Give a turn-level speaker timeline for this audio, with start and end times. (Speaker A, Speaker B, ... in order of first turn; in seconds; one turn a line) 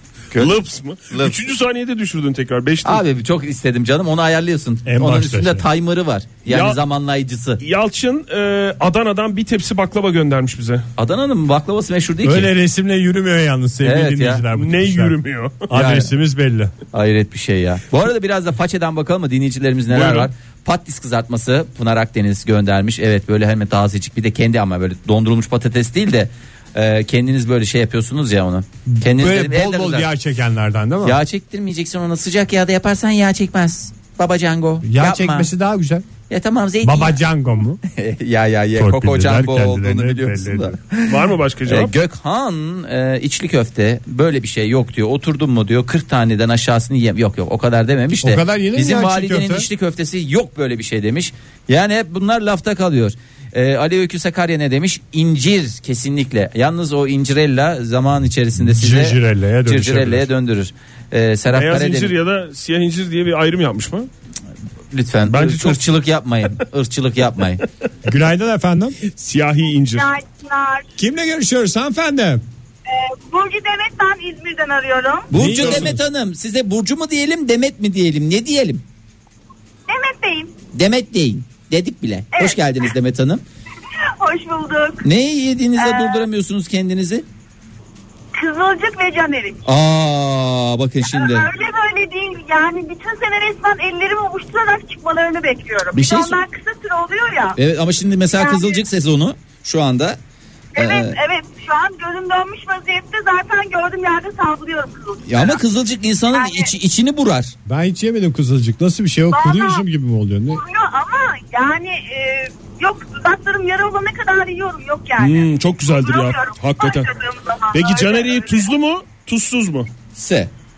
Speaker A: 0.3-3.0
Speaker B: 1.1-1.4
Speaker B: 2.8-7.6
Speaker C: 4.8-5.7
Speaker A: 6.5-6.8
Speaker A: 7.6-10.8
Speaker B: 11.0-12.5
Speaker C: 12.2-15.2
Speaker B: 13.8-14.4
Speaker A: 14.5-15.7
Speaker C: 15.7-16.7
Speaker B: 15.7-16.1
Speaker B: 16.9-30.1
Speaker A: 19.9-20.3
Speaker C: 28.9-31.2
Speaker B: 31.0-35.5
Speaker C: 34.8-36.0
Speaker B: 36.3-37.2
Speaker C: 36.8-37.8
Speaker B: 37.9-62.1
Speaker C: 38.8-40.8
Speaker A: 41.0-41.9
Speaker C: 48.1-49.7
Speaker C: 58.6-60.3
Speaker A: 61.5-64.1
Speaker B: 64.9-67.6
Speaker A: 65.3-65.8
Speaker C: 68.0-69.0
Speaker A: 69.1-70.1
Speaker D: 69.9-70.8
Speaker C: 71.0-72.4
Speaker D: 72.9-75.3
Speaker B: 75.3-78.8
Speaker C: 75.3-76.0
Speaker A: 75.4-75.9
Speaker D: 79.9-80.5
Speaker B: 80.7-83.4
Speaker D: 82.3-82.8
Speaker D: 84.0-85.0
Speaker B: 85.0-87.2
Speaker D: 85.8-86.3
Speaker D: 88.3-89.6
Speaker B: 89.6-91.5
Speaker D: 91.1-97.6
Speaker B: 95.9-96.4
Speaker B: 97.6-100.2
Speaker D: 98.3-98.8
Speaker D: 100.7-105.6
Speaker B: 100.8-101.2
Speaker B: 105.3-107.5
Speaker D: 106.3-106.7
Speaker C: 107.7-110.6
Speaker D: 109.3-109.8
Speaker D: 110.5-118.7
Speaker A: 115.2-117.1
Speaker A: 117.7-119.9
Speaker B: 120.1-120.5